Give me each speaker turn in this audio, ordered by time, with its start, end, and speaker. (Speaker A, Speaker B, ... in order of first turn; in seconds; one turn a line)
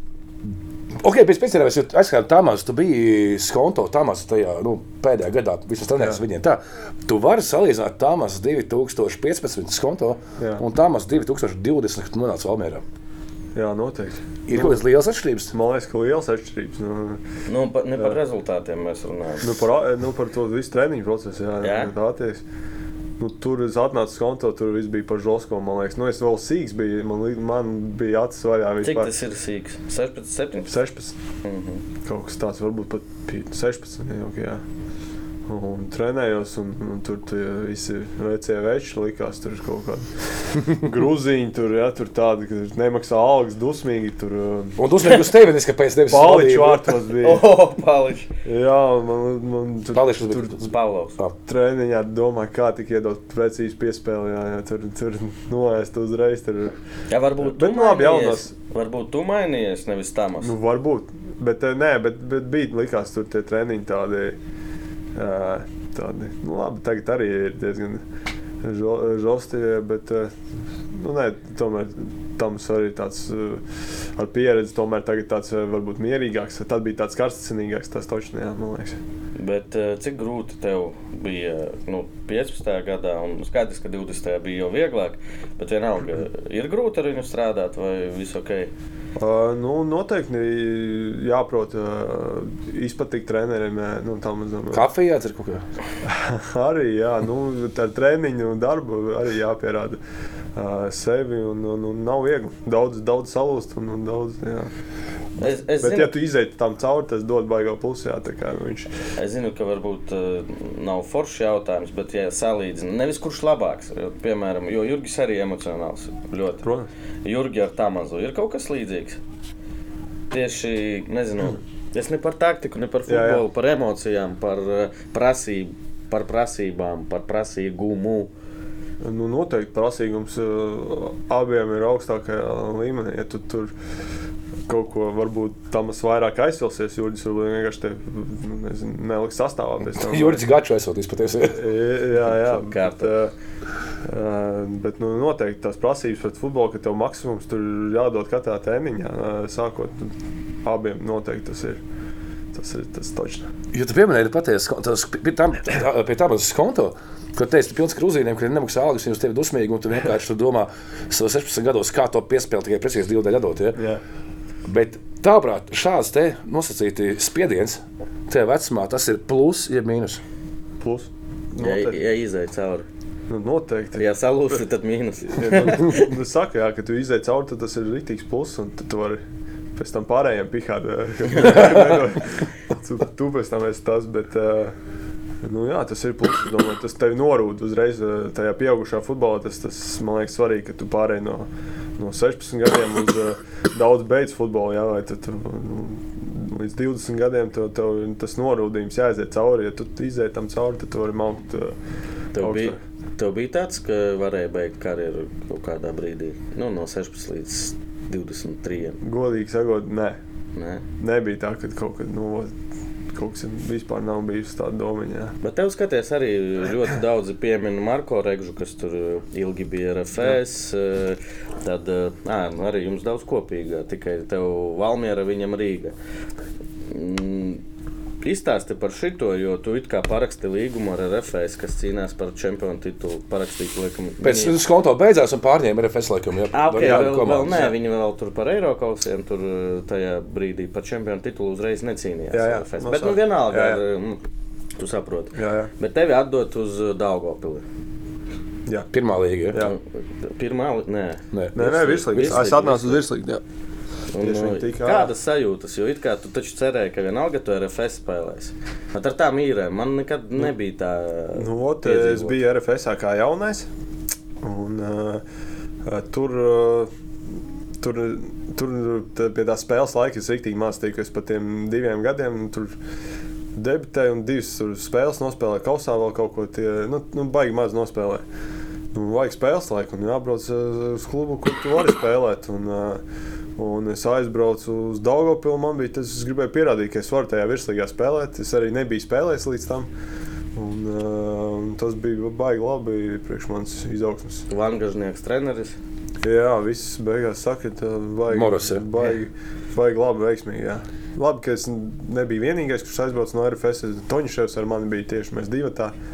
Speaker A: 1.0-12.8
Speaker B: 13.6-14.8
Speaker A: 14.5-15.5
Speaker B: 15.5-17.2
Speaker C: 17.5-19.6
Speaker B: 19.4-22.4
Speaker C: 21.6-21.9
Speaker B: 23.2-29.1
Speaker C: 28.8-30.8
Speaker B: 30.7-31.2
Speaker C: 31.4-31.8
Speaker B: 32.0-34.6
Speaker B: 35.5-44.8
Speaker A: 44.8-46.9
Speaker B: 46.1-47.5
Speaker C: 47.1-48.3
Speaker B: 48.4-50.5
Speaker A: 49.9-51.3
Speaker C: 50.6-51.2
Speaker B: 51.5-56.8
Speaker C: 57.1-60.5
Speaker B: 57.4-58.5
Speaker B: 60.4-64.4
Speaker B: 65.2-68.0
Speaker B: 68.6-70.3
Speaker B: 70.9-79.0
Speaker C: 79.4-88.7
Speaker B: 89.2-94.9
Speaker A: 94.7-95.6
Speaker B: 96.0-100.0
Speaker B: 100.5-104.7
Speaker C: 105.4-106.2
Speaker B: 105.4-108.9
Speaker C: 109.2-116.7
Speaker B: 116.6-116.9
Speaker C: 117.2-119.2
Speaker C: 120.3-128.3
Speaker B: 123.1-123.4
Speaker B: 129.0-133.7
Speaker B: 134.7-140.4
Speaker A: 140.0-141.7
Speaker B: 141.5-143.3
Speaker C: 142.3-143.2
Speaker B: 144.0-151.8
Speaker B: 152.5-153.5
Speaker A: 153.7-163.8
Speaker B: 163.8-164.0
Speaker A: 164.7-170.2
Speaker B: 170.8-172.0
Speaker C: 171.6-172.9
Speaker B: 173.3-174.1
Speaker C: 174.0-176.1
Speaker B: 175.3-179.2
Speaker B: 179.8-184.8
Speaker B: 185.4-201.8
Speaker C: 202.3-209.0
Speaker B: 202.4-202.8
Speaker B: 209.0-210.2
Speaker C: 210.6-210.9
Speaker B: 211.0-212.5
Speaker B: 213.1-215.3
Speaker C: 215.4-225.9
Speaker C: 226.9-227.6
Speaker C: 228.2-234.6
Speaker A: 234.2-237.6
Speaker C: 236.5-244.2
Speaker B: 236.8-237.7
Speaker B: 242.3-243.8
Speaker C: 244.8-247.6
Speaker B: 245.3-245.7
Speaker A: 248.9-249.7
Speaker B: 249.5-249.8
Speaker C: 249.6-253.0
Speaker A: 251.3-251.6
Speaker B: 251.6-253.4
Speaker C: 254.1-262.4
Speaker B: 254.2-255.1
Speaker B: 261.4-263.7
Speaker B: 264.4-265.2
Speaker B: 265.9-266.9
Speaker B: 267.8-272.8
Speaker B: 273.5-278.2
Speaker B: 278.9-283.0
Speaker B: 283.6-289.9
Speaker B: 290.5-294.4
Speaker C: 294.5-295.8
Speaker B: 296.2-305.9
Speaker A: 298.3-298.9